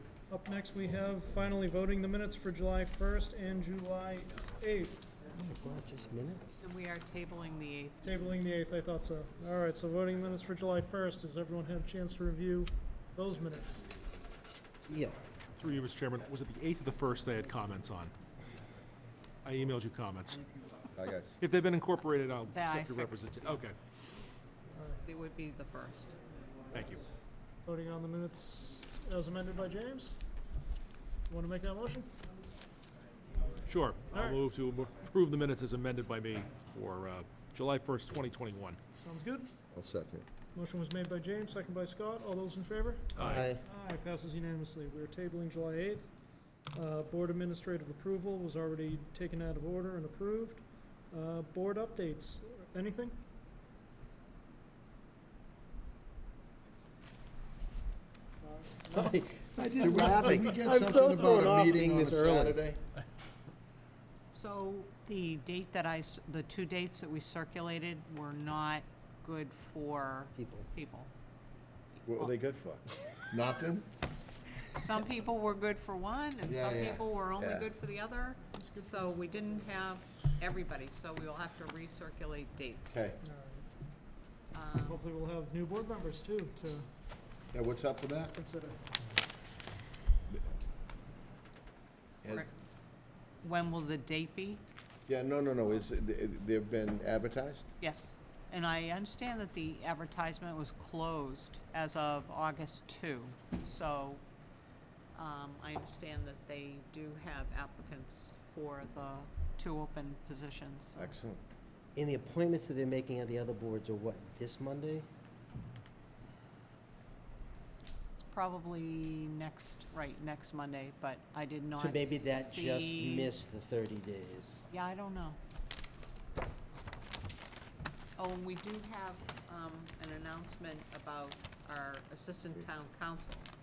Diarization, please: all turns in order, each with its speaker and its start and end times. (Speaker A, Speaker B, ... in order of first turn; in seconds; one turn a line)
Speaker A: 0.3-5.1
Speaker B: 5.3-6.6
Speaker C: 6.6-8.3
Speaker A: 8.0-13.8
Speaker B: 14.8-15.2
Speaker D: 15.6-18.1
Speaker D: 19.4-20.5
Speaker E: 20.9-21.3
Speaker D: 21.4-23.8
Speaker C: 22.5-23.6
Speaker A: 24.7-25.0
Speaker C: 25.0-26.2
Speaker D: 26.7-27.1
Speaker A: 27.6-30.2
Speaker A: 31.3-32.1
Speaker D: 33.6-38.8
Speaker A: 34.1-34.4
Speaker A: 39.0-39.5
Speaker E: 39.7-40.3
Speaker A: 40.5-46.1
Speaker E: 43.1-43.4
Speaker B: 43.2-43.6
Speaker A: 46.7-53.2
Speaker B: 58.9-62.6
Speaker E: 59.8-62.8
Speaker C: 64.3-71.1
Speaker B: 70.3-70.7
Speaker C: 72.0-72.3
Speaker E: 72.0-73.9
Speaker C: 74.7-83.0
Speaker E: 76.5-77.7
Speaker A: 78.4-79.2
Speaker E: 82.9-83.2
Speaker A: 83.2-83.7
Speaker C: 84.5-85.0
Speaker A: 84.8-86.9
Speaker E: 87.5-88.3
Speaker A: 88.3-88.8
Speaker E: 92.2-92.5
Speaker C: 93.4-94.6
Speaker E: 95.1-97.7
Speaker C: 97.8-104.2
Speaker C: 105.1-111.1
Speaker E: 110.9-111.4
Speaker B: 112.0-115.1
Speaker C: 118.2-123.3
Speaker B: 121.7-124.7
Speaker C: 124.7-125.4
Speaker C: 128.2-133.5